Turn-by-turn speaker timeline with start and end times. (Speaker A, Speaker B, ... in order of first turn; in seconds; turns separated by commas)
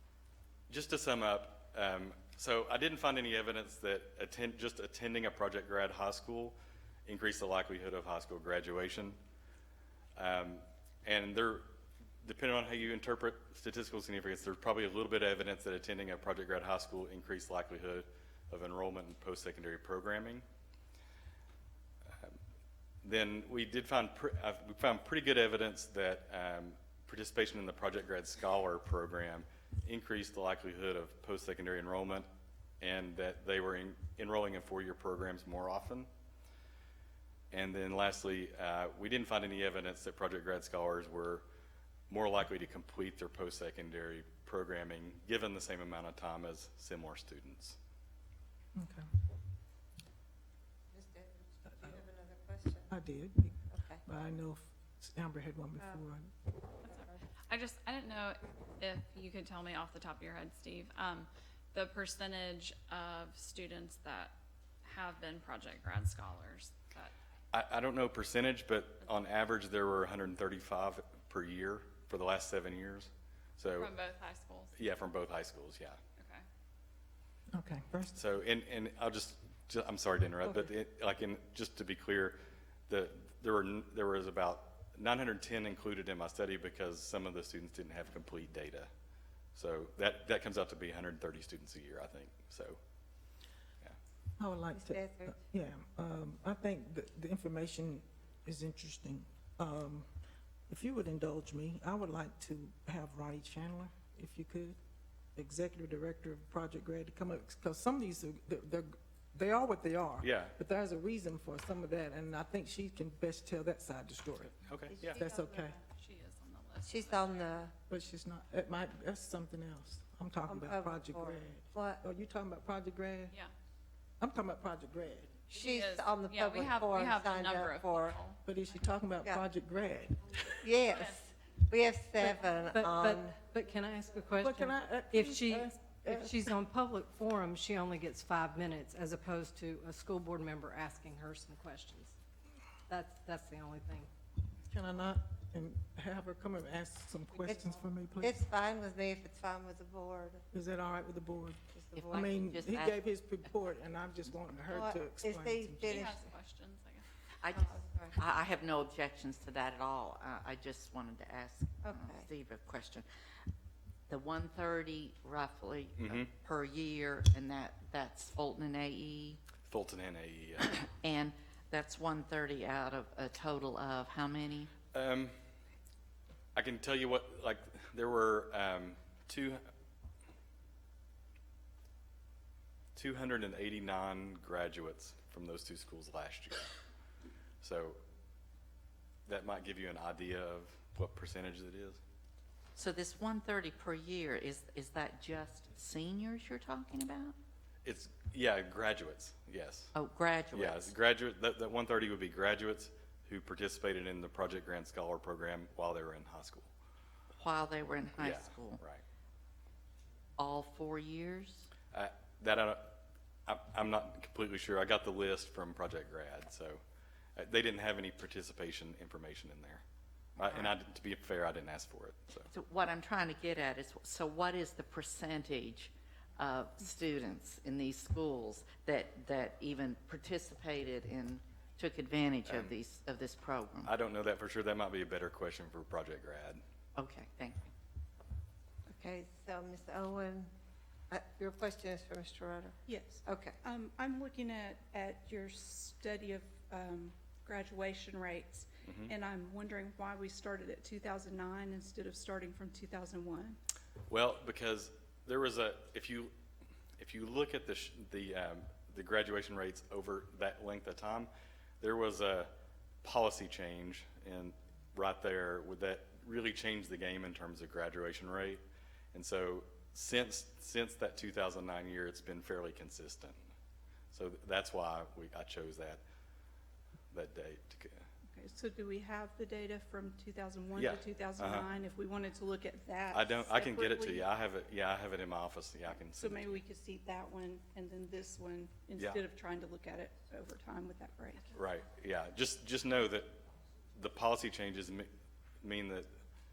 Speaker A: 0.7-9.2, Speaker A: 10.2-11.7, Speaker A: 12.2-20.4, Speaker A: 23.0-32.3, Speaker A: 32.8-36.1, Speaker A: 37.5-41.4, Speaker A: 42.1-47.8, Speaker B: 48.7-49.1, Speaker C: 50.9-52.9, Speaker B: 52.9-56.3, Speaker C: 53.7-54.0, Speaker D: 56.8-64.3, Speaker C: 56.9-57.2, Speaker D: 64.8-67.1, Speaker A: 67.5-73.9, Speaker D: 73.7-74.7, Speaker A: 74.8-76.0, Speaker D: 76.2-76.4, Speaker B: 77.5-78.2, Speaker A: 78.1-88.9, Speaker B: 80.4-80.7, Speaker A: 89.5-92.8, Speaker B: 94.4-100.1, Speaker C: 94.7-95.3, Speaker B: 100.7-104.8, Speaker B: 105.3-115.8, Speaker A: 110.2-110.5, Speaker A: 114.5-115.2, Speaker C: 115.0-115.8, Speaker D: 115.9-117.5, Speaker C: 116.8-117.7, Speaker B: 117.9-123.3, Speaker C: 120.5-122.0, Speaker B: 124.2-125.3, Speaker C: 125.5-128.2, Speaker D: 125.6-128.4, Speaker B: 128.4-130.7, Speaker C: 130.6-133.3, Speaker D: 130.8-131.2, Speaker E: 132.7-142.1, Speaker B: 134.4-136.4, Speaker E: 142.9-144.1, Speaker B: 144.6-148.4, Speaker C: 147.4-147.7, Speaker C: 148.2-150.4, Speaker B: 150.5-156.1, Speaker C: 151.8-152.4, Speaker F: 151.9-153.0, Speaker C: 154.7-156.2, Speaker D: 155.8-157.1, Speaker F: 157.4-163.1, Speaker C: 157.5-158.2, Speaker C: 161.8-162.3, Speaker F: 164.1-169.4, Speaker A: 166.0-166.3, Speaker A: 169.7-170.8, Speaker F: 171.0-174.7, Speaker A: 174.9-175.3, Speaker A: 176.5-179.6, Speaker A: 182.9-186.7, Speaker A: 187.6-188.0, Speaker A: 189.2-192.0, Speaker F: 192.7-197.3, Speaker A: 197.8-199.9, Speaker F: 199.9-200.9, Speaker A: 200.5-206.7, Speaker F: 207.4-208.8, Speaker A: 208.2-209.0, Speaker F: 210.4-211.7, Speaker A: 211.9-212.9, Speaker A: 213.5-216.8, Speaker A: 217.3-219.8, Speaker A: 220.4-222.5, Speaker F: 220.4-220.7, Speaker F: 222.5-233.9, Speaker A: 232.4-232.7, Speaker A: 233.8-236.6, Speaker F: 236.9-237.7, Speaker C: 238.9-240.5, Speaker C: 241.1-243.6, Speaker G: 242.9-253.6, Speaker A: 248.8-249.1, Speaker A: 254.1-256.3, Speaker A: 257.0-261.3, Speaker A: 261.8-273.4, Speaker A: 274.1-276.0, Speaker A: 277.1-278.1, Speaker G: 278.3-284.3, Speaker A: 280.8-281.6, Speaker A: 283.1-286.6, Speaker G: 286.2-291.5, Speaker A: 291.5-293.3, Speaker A: 293.9-295.1, Speaker A: 295.6-296.1